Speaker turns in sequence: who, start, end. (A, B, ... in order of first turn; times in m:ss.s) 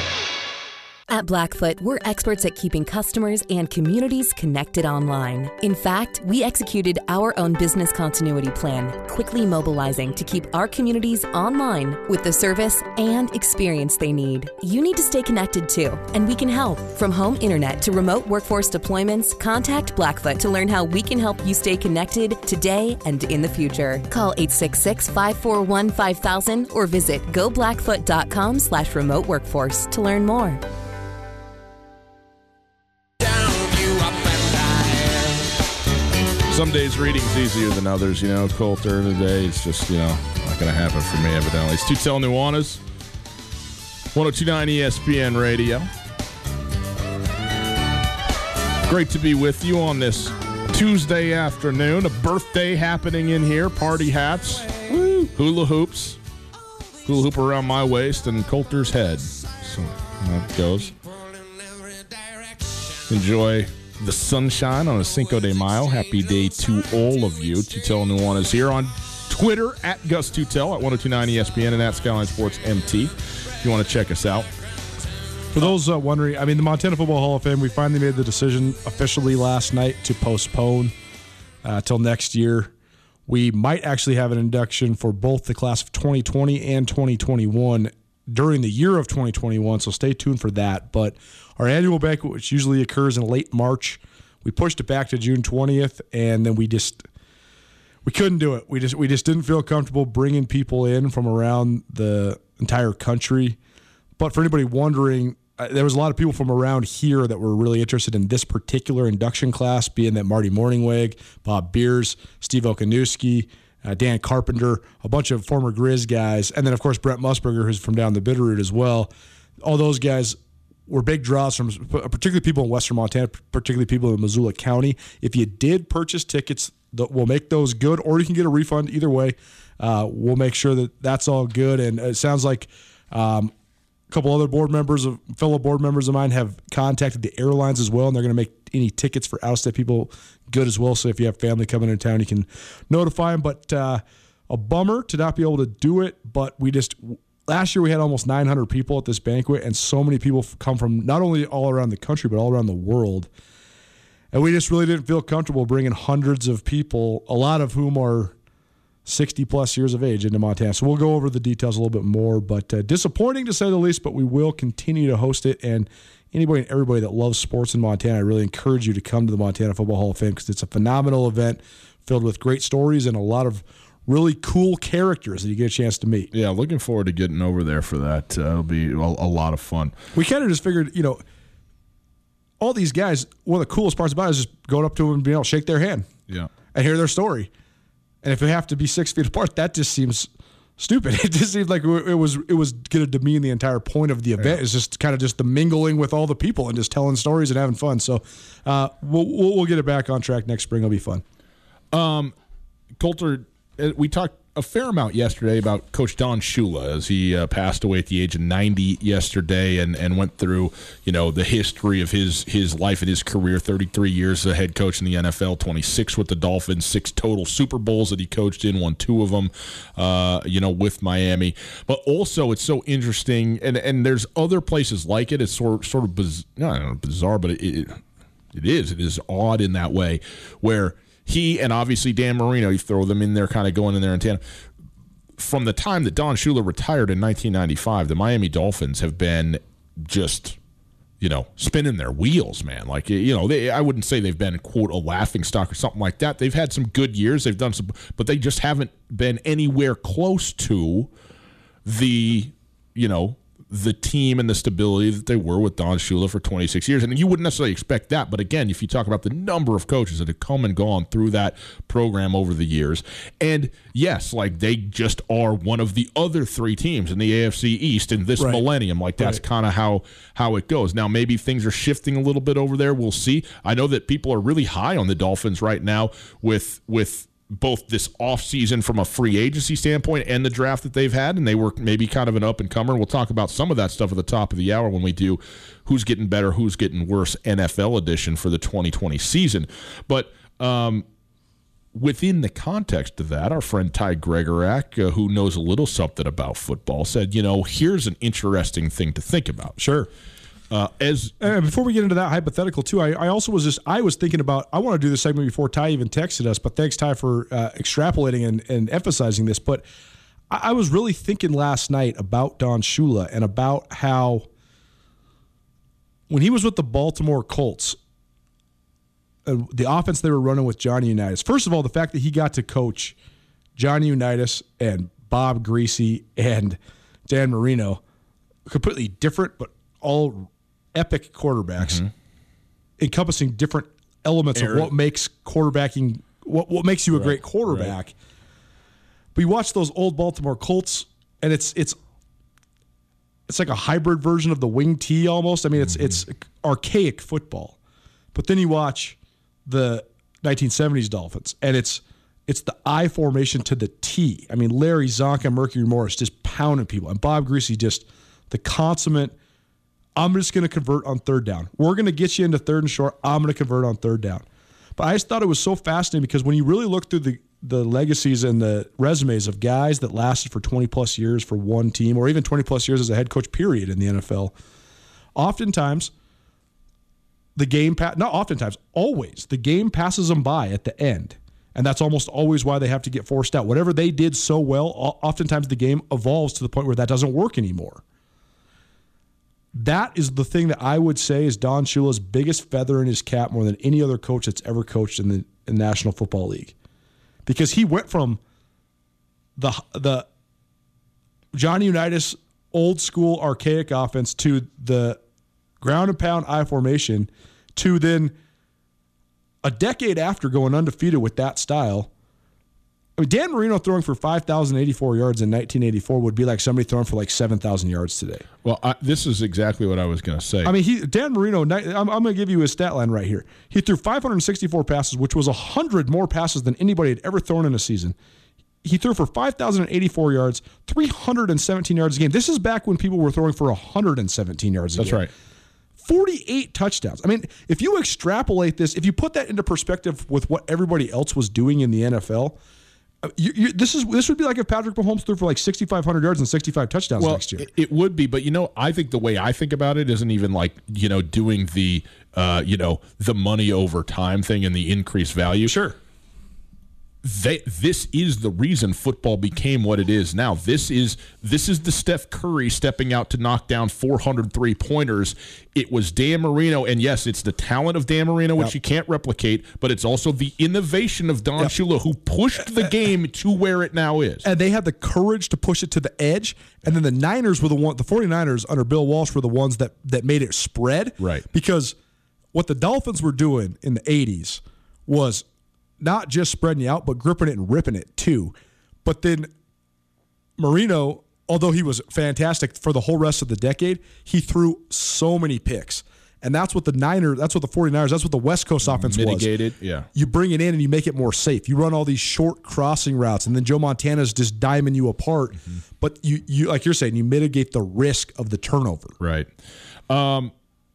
0:01.1-0:30.6 A
0:33.3-0:35.3 B
0:36.5-0:42.8 B
0:44.1-0:45.9 B
0:48.8-0:56.2 B
0:57.0-1:00.9 B
1:03.1-1:14.5 B
1:15.5-1:20.9 C
1:21.6-1:22.7 C
1:23.3-1:37.0 C
1:38.0-1:43.6 C
1:44.2-1:59.1 C
1:59.6-2:13.5 C
2:14.1-2:33.3 C
2:34.3-2:38.3 C
2:39.0-2:56.3 C
2:56.3-2:59.9 B
3:00.1-3:01.2 C
3:02.6-3:06.1 C
3:06.7-3:07.5 C
3:08.2-3:21.2 C
3:21.9-3:22.3 B
3:23.0-3:48.0 B
3:48.5-3:54.4 B
3:55.4-4:00.6 B
4:01.2-4:11.1 B
4:11.8-4:51.0 B
4:28.4-4:28.6 C
4:51.9-4:59.8 B
4:59.8-5:00.1 C
5:00.7-5:01.5 B
5:01.4-5:09.8 C
5:10.5-5:14.5 C
5:16.3-5:18.0 C
5:19.4-5:23.2 C
5:23.8-5:28.0 C
5:28.6-5:32.0 C
5:31.8-5:32.1 B
5:33.0-5:38.1 C
5:34.6-5:34.9 B
5:37.1-5:37.9 B
5:39.3-5:42.0 C
5:43.5-5:47.8 C
5:48.3-5:59.3 C
6:00.2-6:04.4 C
6:05.0-6:14.5 C
6:15.4-6:16.1 C
6:17.6-6:28.0 C
6:29.7-6:36.7 C
6:37.4-6:38.4 C
6:39.6-6:40.3 C
6:41.5-6:45.2 C
6:45.8-6:48.3 C
6:49.6-6:52.1 C
6:53.2-6:58.4 C
6:58.6-7:00.7 B
7:00.6-7:08.2 C
7:08.8-7:15.3 C
7:15.0-7:15.3 B
7:16.0-7:22.6 C
7:23.2-7:27.7 C
7:27.2-7:35.7 B
7:35.6-7:36.0 C
7:37.2-7:54.4 B
7:54.4-8:02.0 C
8:01.2-8:01.4 B
8:02.5-8:05.4 C
8:06.0-8:08.5 C
8:09.0-8:09.5 C
8:10.6-8:19.5 C
8:18.9-8:20.1 B
8:20.1-8:29.1 C
8:29.2-8:29.5 B
8:30.1-8:30.5 B